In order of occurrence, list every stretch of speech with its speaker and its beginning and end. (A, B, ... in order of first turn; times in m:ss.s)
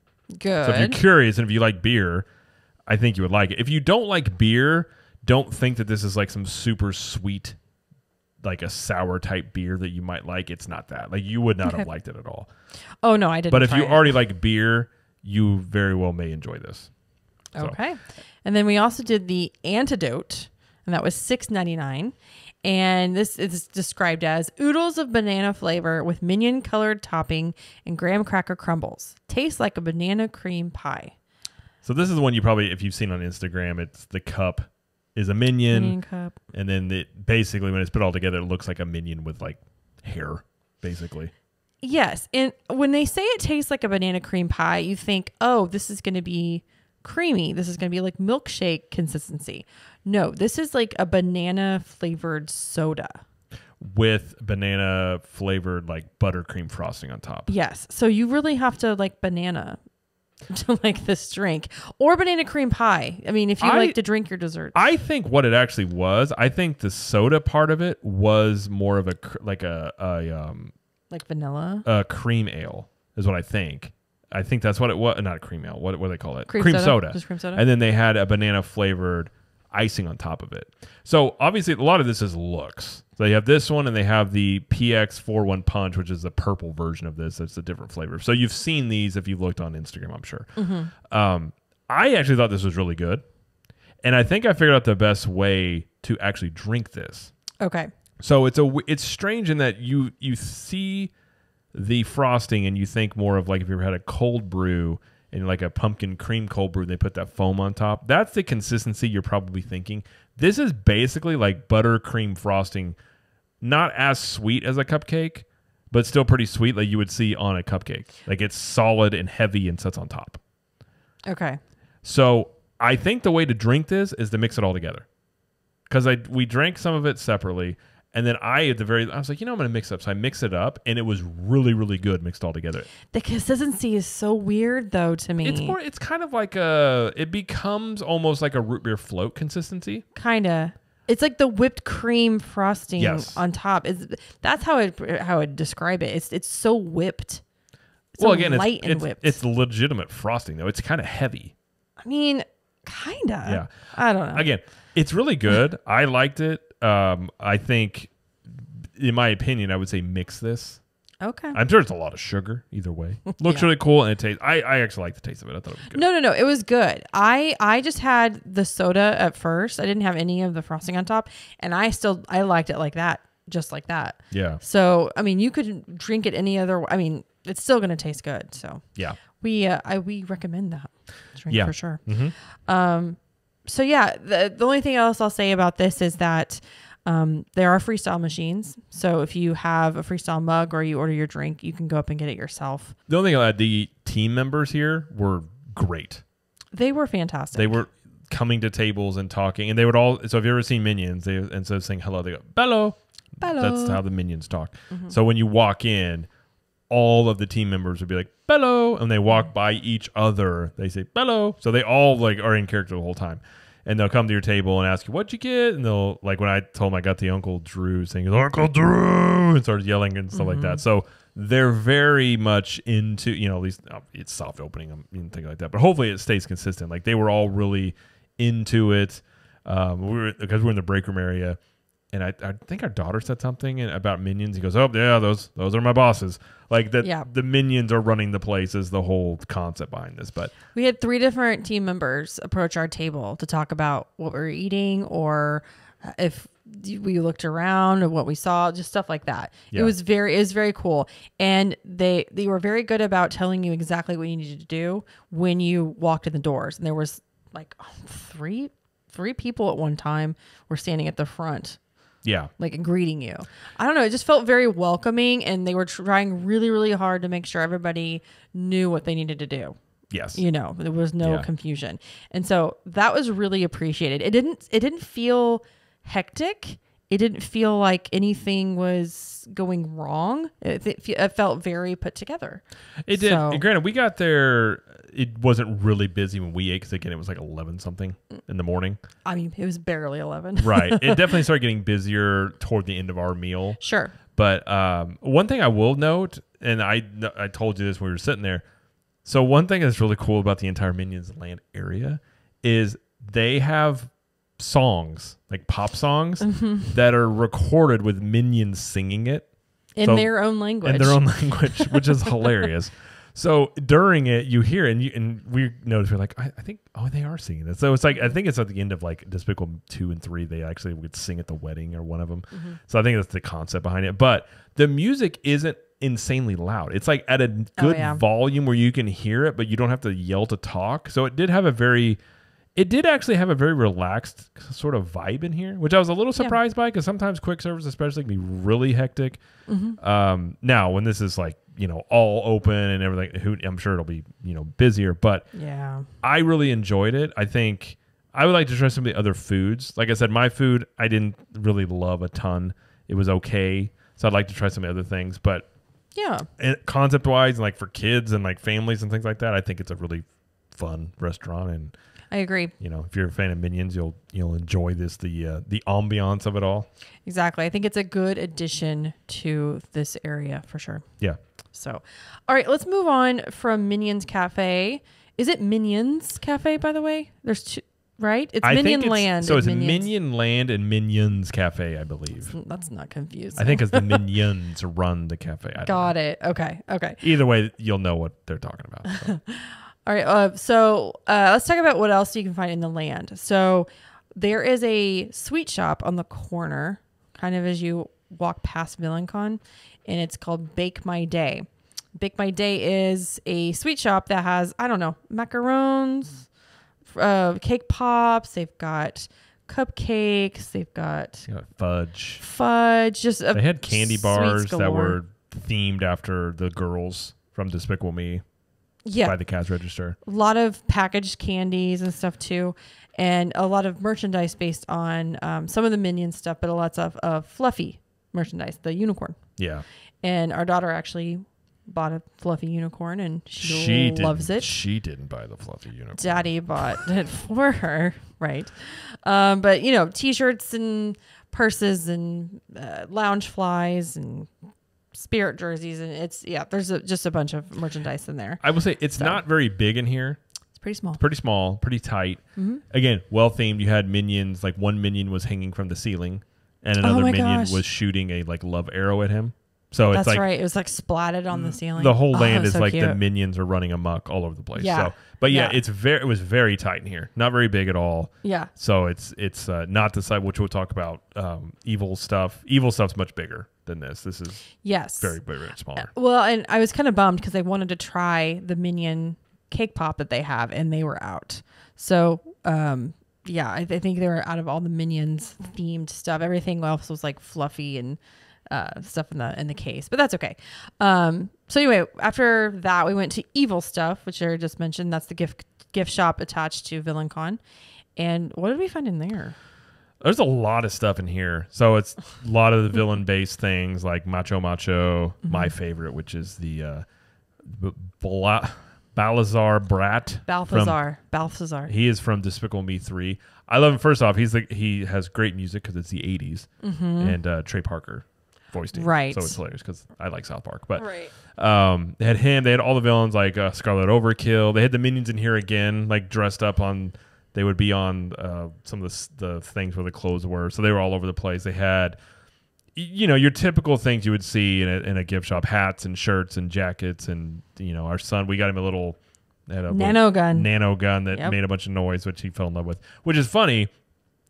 0:00.4-0:01.0 A
0:00.6-0:02.2 B
0:02.9-0:07.6 B
0:08.4-0:12.5 B
0:13.0-0:14.1 A
0:13.5-0:16.9 B
0:17.6-0:31.1 A
0:31.8-0:36.0 B
0:35.7-0:36.4 A
0:36.5-0:41.3 B
0:41.8-0:53.2 A
0:53.8-0:57.5 B
0:57.5-0:59.8 A
1:00.5-1:04.8 A
1:03.6-1:04.0 B
1:04.7-1:10.7 B
1:11.1-1:11.8 A
1:11.8-1:33.2 B
1:16.5-1:17.6 A
1:30.6-1:30.9 A
1:34.0-1:37.3 B
1:37.6-1:37.9 A
1:38.2-1:41.1 B
1:41.7-1:53.0 B
1:53.6-2:00.4 B
2:01.3-2:01.6 A
2:02.0-2:05.0 B
2:05.9-2:12.9 B
2:13.1-2:15.8 A
2:15.4-2:20.0 B
2:20.1-2:27.4 A
2:23.0-2:23.4 B
2:28.2-2:29.4 A
2:28.2-2:31.5 B
2:32.0-2:34.4 A
2:33.4-2:40.8 B
2:41.2-2:41.6 A
2:41.5-2:46.0 B
2:43.3-2:43.7 A
2:45.9-3:02.0 A
2:54.3-2:54.6 B
3:01.5-3:02.3 B
3:02.7-3:12.9 A
3:13.1-3:16.2 B
3:16.7-3:17.8 A
3:17.5-3:26.3 B
3:23.4-3:24.0 A
3:26.9-3:51.6 B
3:40.3-3:40.8 A
3:52.1-4:00.5 B
4:00.7-4:21.8 A
4:22.2-4:22.5 B
4:22.6-4:29.8 A
4:30.1-4:30.4 B
4:30.3-4:43.6 A
4:43.0-4:49.0 B
4:49.2-4:51.4 A
4:50.6-4:53.8 B
4:53.8-4:54.1 A
4:54.3-4:58.6 B
4:59.2-5:09.5 B
5:06.5-5:06.9 A
5:10.0-5:12.1 A
5:10.0-5:10.3 B
5:10.8-5:32.2 B
5:22.5-5:22.8 A
5:27.8-5:28.2 A
5:32.8-5:39.4 B
5:39.7-5:40.0 A
5:40.0-5:45.4 B
5:45.5-5:46.1 A
5:46.2-5:55.7 B
5:56.1-5:56.5 A
5:56.6-6:01.9 B
6:02.3-6:02.7 A
6:02.8-6:06.9 B
6:07.2-6:11.0 A
6:11.7-6:20.1 A
6:18.6-6:22.5 B
6:22.5-6:24.2 A
6:23.6-6:26.1 B
6:25.8-6:27.2 A
6:27.2-6:29.3 B
6:29.0-6:46.5 A
6:47.0-6:51.5 A
6:51.5-6:52.4 B
6:52.4-6:55.2 A
6:53.5-6:58.4 B
6:59.0-6:59.4 A
6:59.2-7:00.2 B
7:00.2-7:09.4 A
7:09.6-7:09.8 B
7:10.2-7:14.7 A
7:13.6-7:17.0 B
7:16.2-7:24.5 A
7:25.1-7:28.6 A
7:28.6-7:30.4 B
7:29.2-7:29.4 A
7:30.8-7:31.2 A
7:31.2-7:40.4 B
7:32.6-7:32.8 A
7:37.0-7:37.8 A
7:40.1-7:43.2 A
7:41.5-7:54.7 B
7:44.8-7:45.8 A
7:48.4-7:48.7 A
7:54.8-7:55.4 A
7:55.2-7:56.1 B
7:55.9-8:08.2 A
8:08.7-8:17.6 A
8:18.2-8:19.5 A
8:20.2-8:27.0 B
8:25.4-8:25.7 A
8:27.6-8:31.0 B
8:30.4-8:31.9 A
8:31.9-8:52.2 B
8:36.8-8:37.4 A
8:38.9-8:39.6 A
8:41.0-8:41.3 A
8:52.9-9:03.9 B
8:59.9-9:00.7 A